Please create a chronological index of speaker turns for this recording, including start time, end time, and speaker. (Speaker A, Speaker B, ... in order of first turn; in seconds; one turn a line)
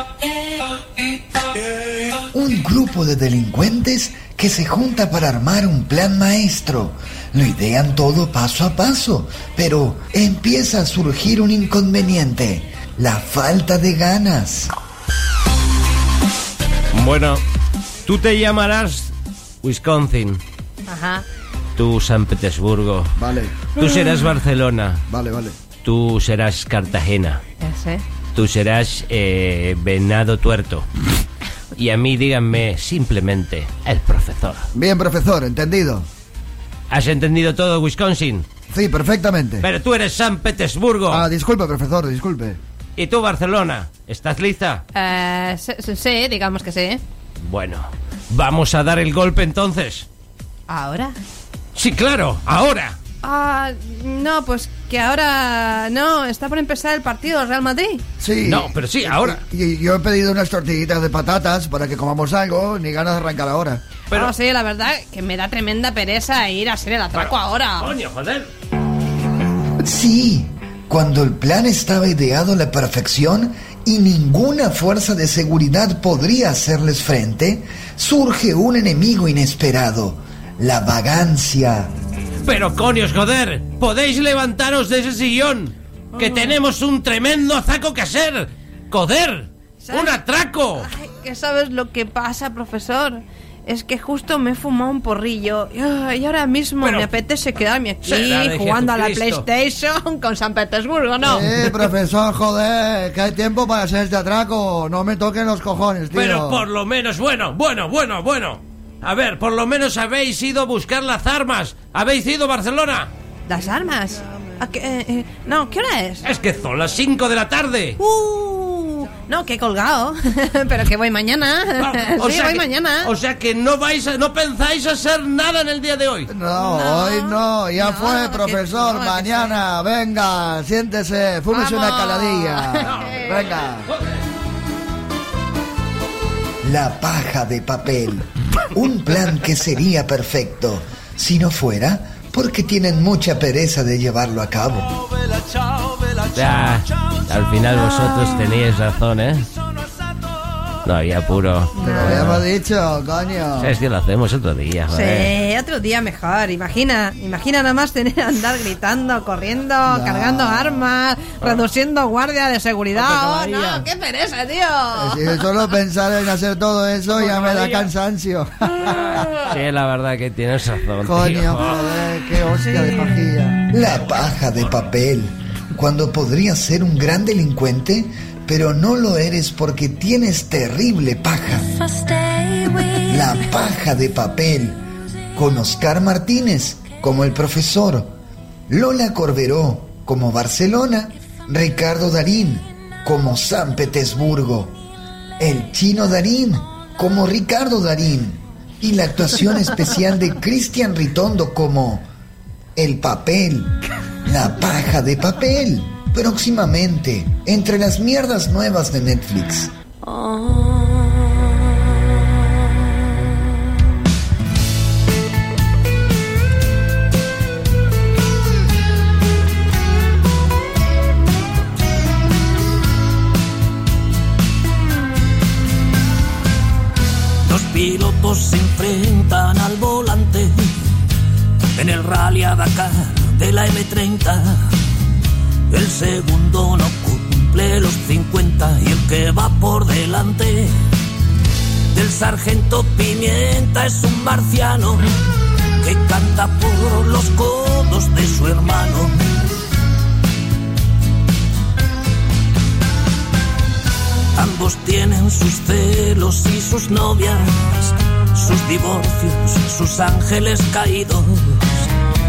Speaker A: 2.3-14.7
Speaker B: 16.9-17.4
Speaker B: 18.1-20.4
Speaker C: 20.9-21.2
Speaker B: 21.8-23.1
Speaker D: 23.2-23.7
Speaker B: 23.7-25.1
Speaker D: 25.1-25.6
Speaker B: 25.8-27.4
Speaker C: 27.6-28.0
Speaker B: 28.3-30.9
Speaker B: 31.8-34.7
Speaker D: 34.7-36.0
Speaker B: 36.9-38.5
Speaker D: 38.7-39.7
Speaker B: 39.6-41.3
Speaker D: 41.1-42.6
Speaker B: 43.0-44.8
Speaker C: 44.9-47.0
Speaker B: 47.5-50.1
Speaker C: 50.7-51.2
Speaker B: 51.8-53.0
Speaker C: 53.2-58.0
Speaker D: 58.2-63.8
Speaker B: 58.4-59.4
Speaker C: 64.1-67.9
Speaker B: 67.1-68.5
Speaker A: 69.8-81.9
Speaker B: 82.4-90.9
Speaker C: 89.8-90.2
Speaker C: 90.8-101.5
Speaker B: 96.8-97.1
Speaker B: 98.0-99.5
Speaker D: 101.2-106.7
Speaker B: 106.1-113.1
Speaker C: 113.5-116.2
Speaker B: 116.2-118.0
Speaker C: 118.0-123.1
Speaker B: 121.8-126.3
Speaker D: 126.3-133.9
Speaker C: 126.5-129.7
Speaker C: 131.5-133.4
Speaker B: 132.8-134.0
Speaker A: 136.6-144.9
Speaker B: 146.2-149.5
Speaker B: 150.8-152.4
Speaker C: 151.8-152.2
Speaker D: 151.8-153.8
Speaker B: 153.6-155.3
Speaker C: 154.9-165.5
Speaker D: 159.9-160.8
Speaker B: 162.9-163.8
Speaker D: 164.9-169.2
Speaker B: 167.2-167.9
Speaker B: 169.0-171.8
Speaker D: 171.0-173.7
Speaker A: 173.7-181.9
Speaker C: 182.4-182.8
Speaker A: 182.9-184.8
Speaker A: 185.3-188.1
Speaker A: 188.7-194.8
Speaker A: 195.4-202.1
Speaker A: 202.8-203.8
Speaker A: 204.3-209.7
Speaker C: 210.1-210.8
Speaker E: 227.4-231.0
Speaker E: 231.8-234.8
Speaker E: 235.7-240.8
Speaker E: 241.9-245.1
Speaker E: 245.8-249.4
Speaker E: 254.3-261.9